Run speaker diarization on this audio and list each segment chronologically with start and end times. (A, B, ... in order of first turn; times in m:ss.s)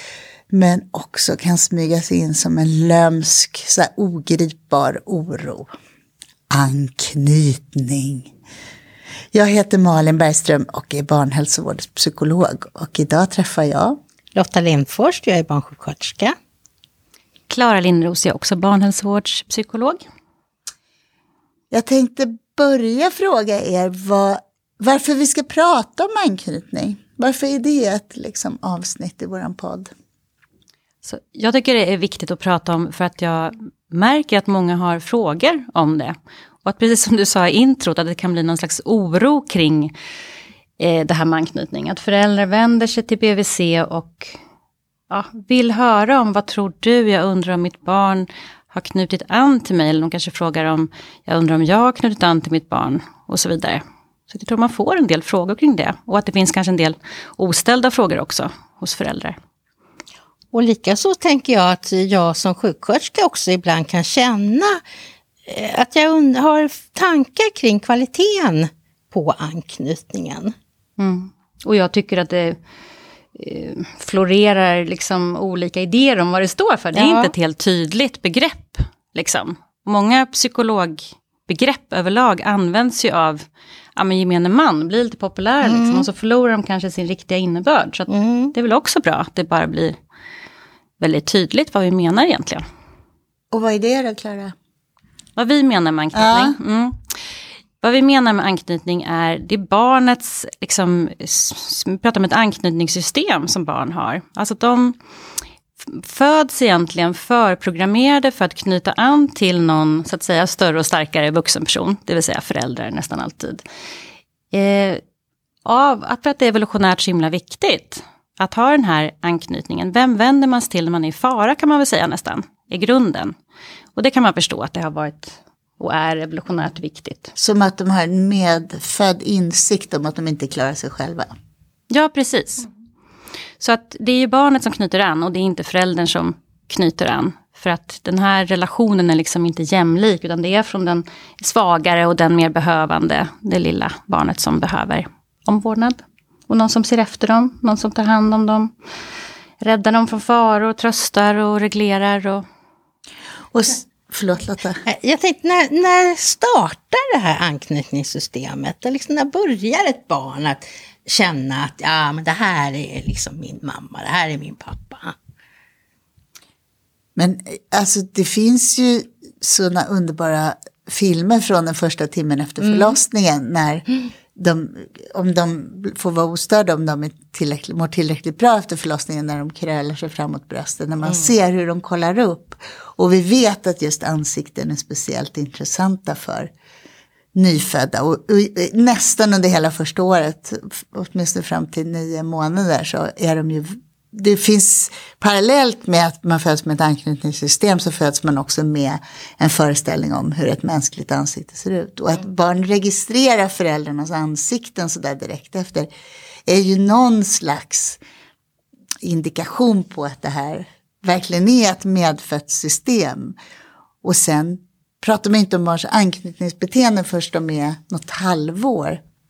0:00.5-0:05.7 A
0:06.5-0:08.3 A
0:09.3-0:14.0 A
0:14.3-0:16.3 B
0:17.5-0:20.0 C
0:21.7-0:29.9 A
0:31.0-0:39.9 C
0:40.8-0:44.4 C
0:45.1-0:59.4 C
1:00.5-1:04.8 B
1:05.5-1:10.5 B
1:11.0-1:12.6 C
1:13.4-1:23.4 C
1:16.9-1:17.3 B
1:24.0-1:30.0 C
1:25.6-1:26.1 B
1:28.1-1:28.5 B
1:31.0-1:32.6 C
1:33.5-1:34.5 A
1:35.4-1:37.0 C
1:36.1-1:36.6 A
1:37.8-1:45.0 C
1:45.8-1:53.6 C
1:54.5-1:55.0 C
1:55.6-2:03.3 C
2:04.0-2:07.3 C
2:07.4-2:11.3 A
2:11.9-2:12.7 C
2:13.6-2:28.7 C
2:29.6-2:32.4 C
2:33.5-2:34.8 A
2:34.8-2:45.1 B
2:47.2-3:06.5 A
2:52.6-2:53.0 B
3:01.0-3:01.3 B
3:07.3-3:25.9 A
3:26.5-3:28.0 A
3:29.0-3:33.4 A
3:34.0-3:39.0 A